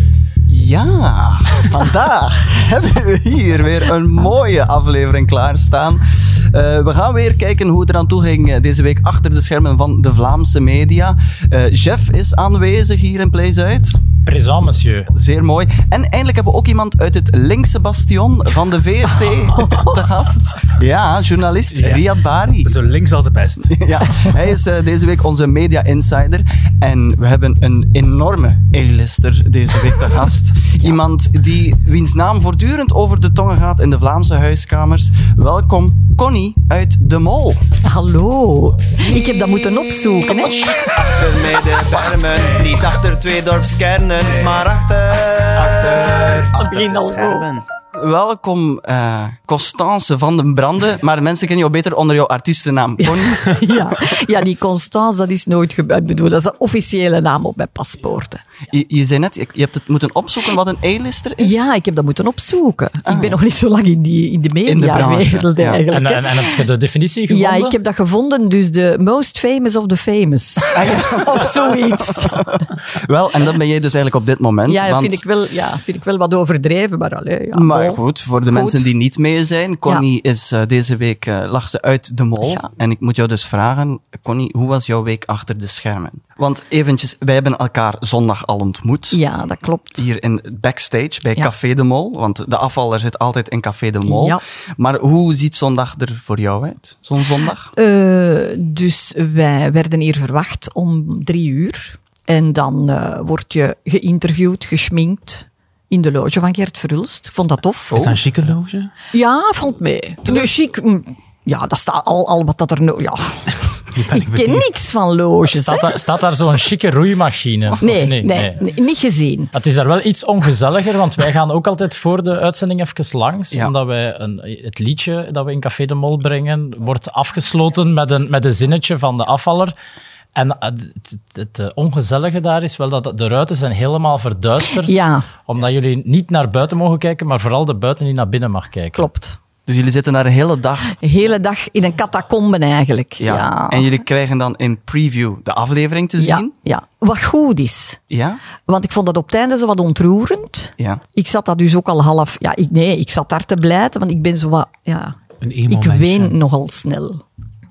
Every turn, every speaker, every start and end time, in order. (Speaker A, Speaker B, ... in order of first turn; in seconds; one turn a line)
Speaker A: 0.5-14.0
Speaker B: 14.2-15.1
Speaker A: 15.1-22.7
Speaker C: 19.6-19.9
Speaker D: 21.7-22.1
Speaker D: 22.6-24.3
Speaker A: 23.6-37.6
Speaker C: 37.8-41.0
Speaker A: 40.2-43.1
Speaker E: 40.7-47.6
Speaker A: 44.2-46.1
Speaker C: 46.6-47.5
Speaker A: 47.9-54.1
Speaker C: 53.0-58.4
Speaker A: 58.7-61.7
Speaker C: 61.4-66.6
Speaker A: 63.0-63.4
Speaker A: 64.7-65.8
Speaker B: 65.9-67.8
Speaker C: 67.3-72.5
Speaker A: 70.7-75.2
Speaker C: 74.7-78.9
Speaker A: 77.5-89.2
Speaker C: 82.4-82.7
Speaker C: 89.1-90.0
Speaker A: 90.0-97.7
Speaker C: 94.0-94.4
Speaker C: 97.7-108.1
Speaker D: 107.9-108.9
Speaker A: 107.9-108.2
Speaker C: 109.1-115.9
Speaker D: 113.9-114.7
Speaker B: 115.5-118.6
Speaker C: 117.8-119.5
Speaker B: 119.5-129.7
Speaker B: 130.3-139.1
Speaker C: 134.7-135.2
Speaker C: 138.9-139.4
Speaker A: 139.7-141.0
Speaker C: 141.0-144.0
Speaker A: 143.2-146.5
Speaker C: 146.2-148.0
Speaker A: 148.1-148.4
Speaker C: 148.7-155.1
Speaker D: 155.4-156.3
Speaker C: 155.7-157.2